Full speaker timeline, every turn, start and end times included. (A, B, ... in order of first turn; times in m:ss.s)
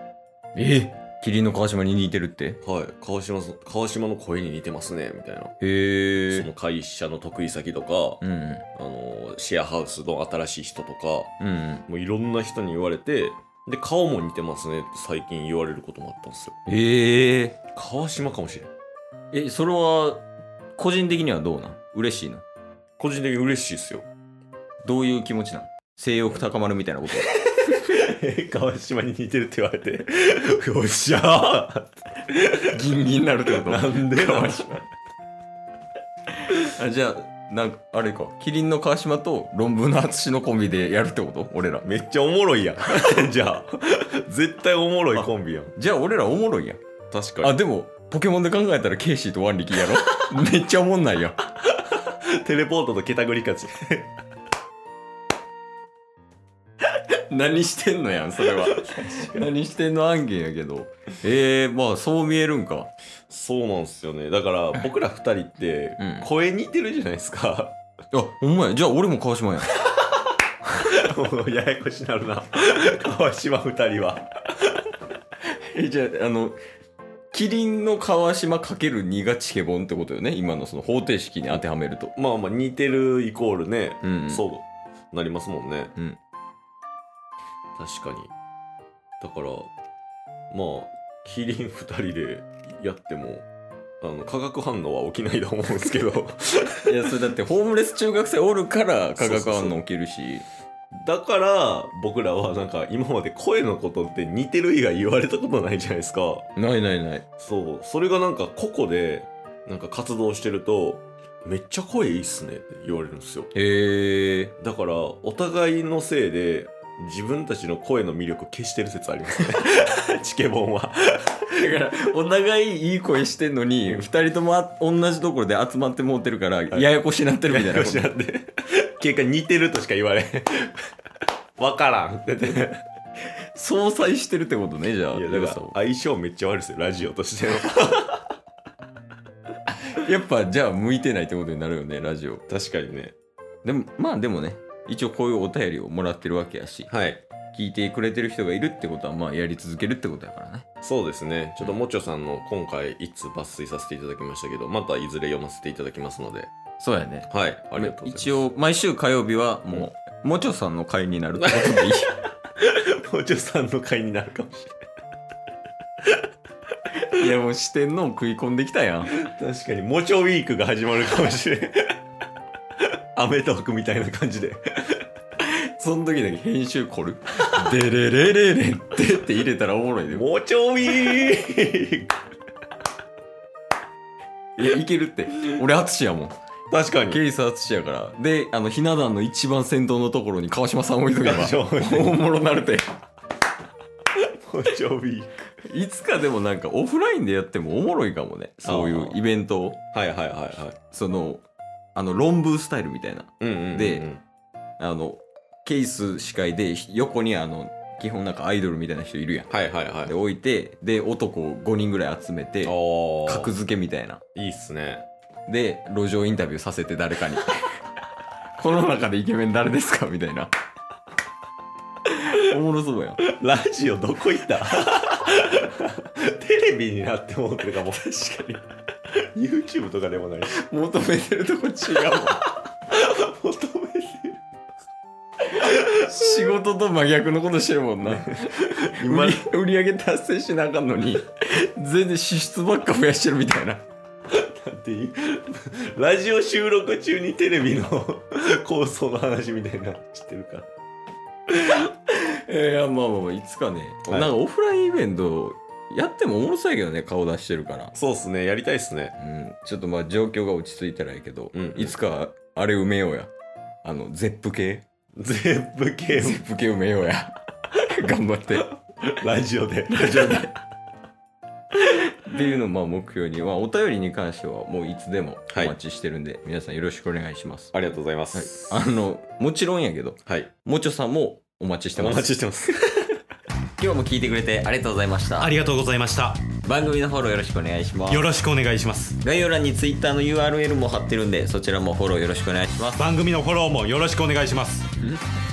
0:00.5-0:02.6 A
0:02.6-0:05.5 B
0:05.6-0:06.5 A
0:06.3-0:08.2 B
0:08.2-0:08.6 A
0:08.7-0:11.3 B
0:11.4-0:11.8 A
0:11.9-0:16.5 B
0:16.7-0:17.6 A
0:17.7-0:18.7 B
0:19.3-0:22.4 A
0:23.0-0:24.1 B
0:24.8-0:27.8 A
0:27.8-0:32.7 B
0:32.7-0:34.8 A
0:33.6-0:34.8 B
0:36.5-0:41.9 A
0:41.8-0:45.7 B
0:45.1-0:46.8 A
0:47.1-0:47.6 B
0:47.4-0:51.4 A
0:51.7-0:54.1 B
0:56.9-1:02.9 A
0:58.8-0:59.5 B
1:03.3-1:07.8 B
1:06.0-1:06.3 A
1:08.1-1:09.8 A
1:10.8-1:14.7 B
1:15.5-1:16.6 A
1:17.3-1:22.1 A
1:22.2-1:25.9 B
1:24.0-1:24.4 A
1:27.8-1:28.3 B
1:29.2-1:29.7 B
1:30.5-1:33.4 B
1:34.0-1:36.9 B
1:36.8-1:40.4 A
1:39.2-1:39.8 B
1:41.0-1:46.5 B
1:46.6-1:47.2 A
1:47.4-1:53.5 B
1:53.5-1:54.5 A
1:54.6-2:01.4 B
2:01.5-2:08.1 A
2:07.5-2:10.8 B
2:11.6-2:12.8 B
2:13.5-2:15.7 A
2:15.1-2:18.2 B
2:19.7-2:22.4 A
2:22.5-2:23.1 B
2:23.6-2:26.9 A
2:26.9-2:27.2 B
2:27.5-2:30.6 A
2:30.8-2:36.5 B
2:36.8-2:42.1 A
2:37.3-2:38.4 B
2:42.6-2:44.8 B
2:47.1-2:49.2 A
2:49.1-2:52.0 B
2:53.1-2:55.0 B
2:55.4-3:00.2 A
3:00.1-3:02.1 B
3:04.6-3:06.4 A
3:06.7-3:07.2 B
3:07.1-3:12.8 A
3:11.2-3:12.2 B
3:14.2-3:15.3 B
3:15.6-3:19.8 A
3:18.6-3:19.2 B
3:19.9-3:20.8 B
3:20.9-3:24.1 A
3:23.4-3:24.2 B
3:24.8-3:29.5 A
3:29.5-3:30.1 B
3:30.0-3:34.2 A
3:32.6-3:33.5 B
3:34.3-3:35.0 B
3:35.5-3:37.8 A
3:38.6-3:40.5 A
3:42.0-3:43.2 A
3:43.2-3:48.6 B
3:49.3-3:50.5 B
3:50.5-3:52.4 A
3:52.9-3:54.4 B
3:55.6-4:03.8 A
3:58.1-3:59.4 B
4:04.3-4:10.7 B
4:11.5-4:17.9 A
4:14.1-4:14.3 B
4:17.9-4:19.1 B
4:19.2-4:23.3 A
4:21.5-4:21.9 B
4:23.8-4:24.8 A
4:25.2-4:26.4 B
4:26.1-4:28.7 A
4:29.0-4:30.5 B
4:29.9-4:30.5 A
4:31.7-4:37.7 A
4:35.5-4:35.7 B
4:37.7-4:38.8 B
4:38.3-4:42.3 A
4:42.0-4:43.1 B
4:43.8-4:45.6 A
4:45.4-4:46.5 C
4:46.6-4:48.3 A
4:48.1-4:49.2 C
4:49.2-4:53.1 A
4:53.0-4:54.9 C